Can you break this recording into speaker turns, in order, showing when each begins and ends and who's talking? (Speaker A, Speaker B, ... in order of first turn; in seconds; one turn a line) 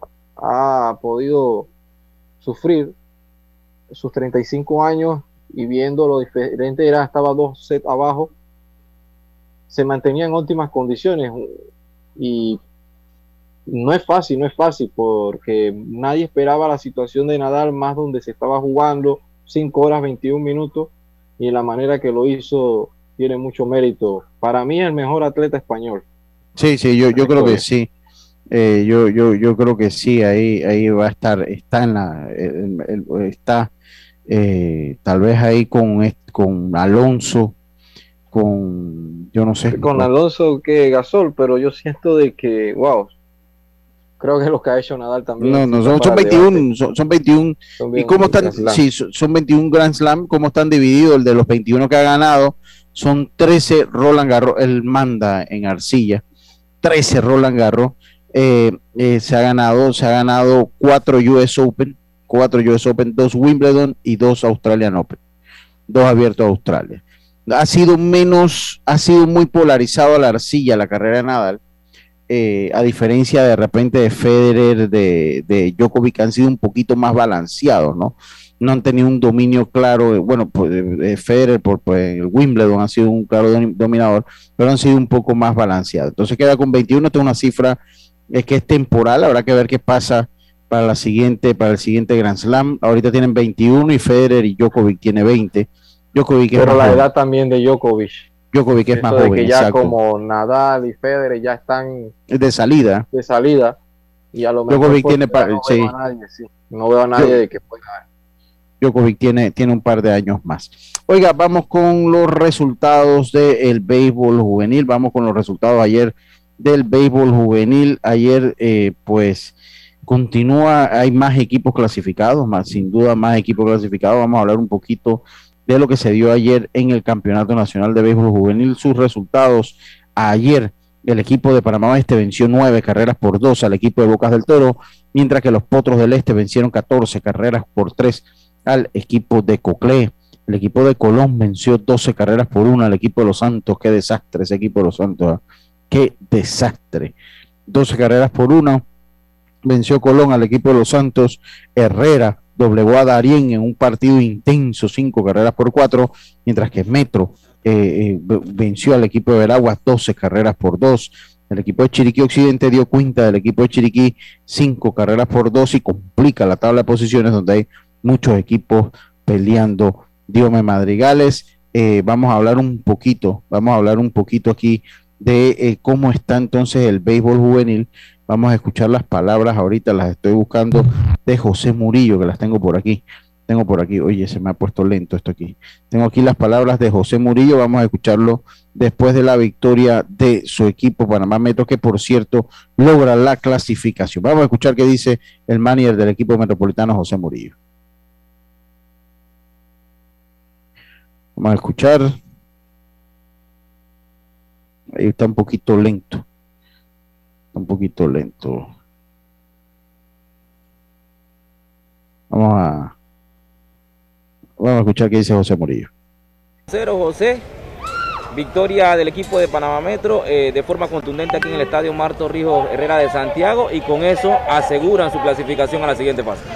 Speaker A: 0.4-1.7
Speaker A: 2.4-2.9
Speaker A: 3.9-8.3
Speaker A: 9.7-11.5
Speaker A: 12.2-12.6
Speaker A: 13.7-26.0
Speaker B: 26.6-27.9
Speaker A: 27.1-27.6
Speaker B: 28.5-33.7
Speaker B: 34.3-37.5
Speaker B: 38.3-40.1
Speaker A: 39.7-43.1
Speaker A: 44.2-46.6
Speaker B: 45.4-56.2
Speaker A: 47.8-48.8
Speaker B: 56.8-65.2
Speaker B: 65.9-71.6
Speaker B: 72.3-87.8
Speaker B: 88.3-97.0
Speaker A: 96.5-98.3
Speaker B: 98.5-100.0
Speaker A: 98.9-102.1
Speaker B: 102.3-103.1
Speaker A: 103.1-103.8
Speaker A: 104.3-108.0
Speaker B: 104.7-105.9
Speaker B: 107.2-107.4
Speaker B: 108.8-119.5
Speaker B: 120.0-147.1
Speaker B: 147.7-148.8
Speaker B: 149.6-197.5
Speaker B: 201.4-202.1
Speaker B: 204.9-206.2
Speaker B: 207.5-208.7
Speaker B: 212.3-212.9
Speaker B: 214.6-215.9
Speaker C: 216.7-217.4
Speaker C: 218.3-226.4